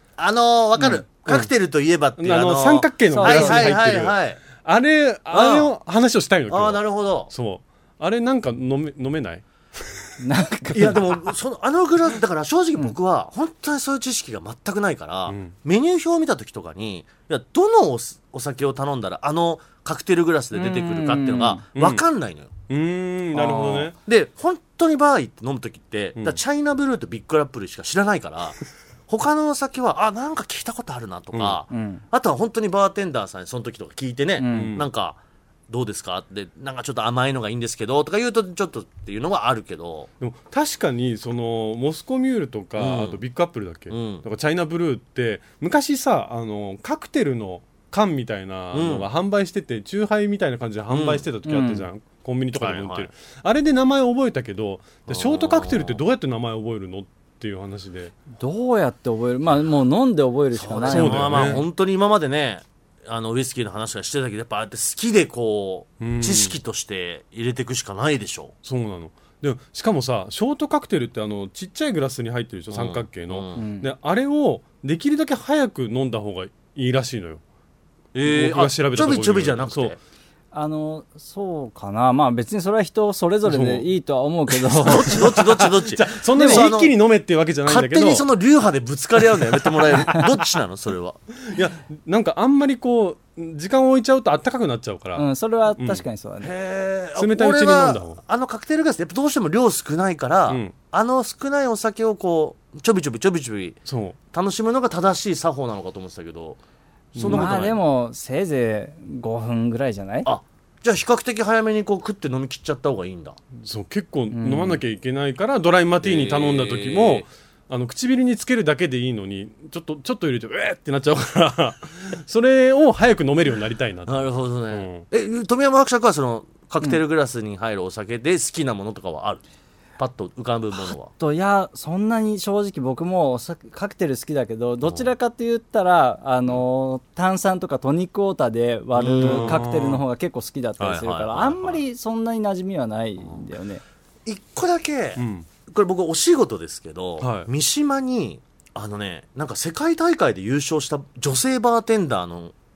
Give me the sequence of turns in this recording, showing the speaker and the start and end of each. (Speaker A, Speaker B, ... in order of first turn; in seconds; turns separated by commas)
Speaker A: 0.2-4.4, Speaker B: 2.2-10.0, Speaker C: 3.1-3.8, Speaker A: 5.3-5.7, Speaker A: 6.5-7.3, Speaker C: 10.2-11.0, Speaker A: 10.7-22.5, Speaker B: 15.3-15.5, Speaker C: 20.5-21.6, Speaker B: 21.7-22.0, Speaker B: 22.7-24.0, Speaker C: 23.3-23.9, Speaker A: 24.0-35.2, Speaker B: 31.3-31.6, Speaker C: 31.7-32.0, Speaker C: 34.4-34.8, Speaker B: 34.5-34.9, Speaker A: 35.7-40.1, Speaker B: 40.2-58.1, Speaker A: 42.8-43.2, Speaker A: 43.9-44.2, Speaker A: 48.7-49.1, Speaker A: 50.9-51.2, Speaker C: 51.5-51.9, Speaker A: 52.5-53.1, Speaker A: 55.1-56.0, Speaker C: 58.4-61.6, Speaker A: 60.5-68.5, Speaker B: 60.9-61.6, Speaker B: 66.0-66.6, Speaker B: 68.6-77.4, Speaker A: 72.7-73.6, Speaker C: 73.5-73.9, Speaker A: 78.1-80.0, Speaker B: 78.2-80.0, Speaker C: 80.5-85.2, Speaker B: 83.5-83.9, Speaker A: 84.8-87.0, Speaker B: 84.8-88.2, Speaker C: 86.3-86.7, Speaker A: 87.6-91.2, Speaker B: 91.5-95.2, Speaker C: 95.2-96.5, Speaker B: 95.8-96.0, Speaker A: 96.4-106.6, Speaker B: 97.2-98.2, Speaker B: 100.5-100.7, Speaker B: 103.8-104.2, Speaker B: 107.1-107.7, Speaker A: 107.1-107.8, Speaker C: 107.3-110.3, Speaker A: 110.2-113.4, Speaker B: 113.6-125.0, Speaker C: 114.3-114.8, Speaker A: 116.0-117.2, Speaker A: 124.1-129.4, Speaker A: 130.0-131.1, Speaker C: 130.8-143.8, Speaker A: 138.9-139.6, Speaker B: 139.2-140.0, Speaker A: 140.8-141.8, Speaker A: 144.2-152.5, Speaker B: 145.2-145.4, Speaker B: 147.2-147.5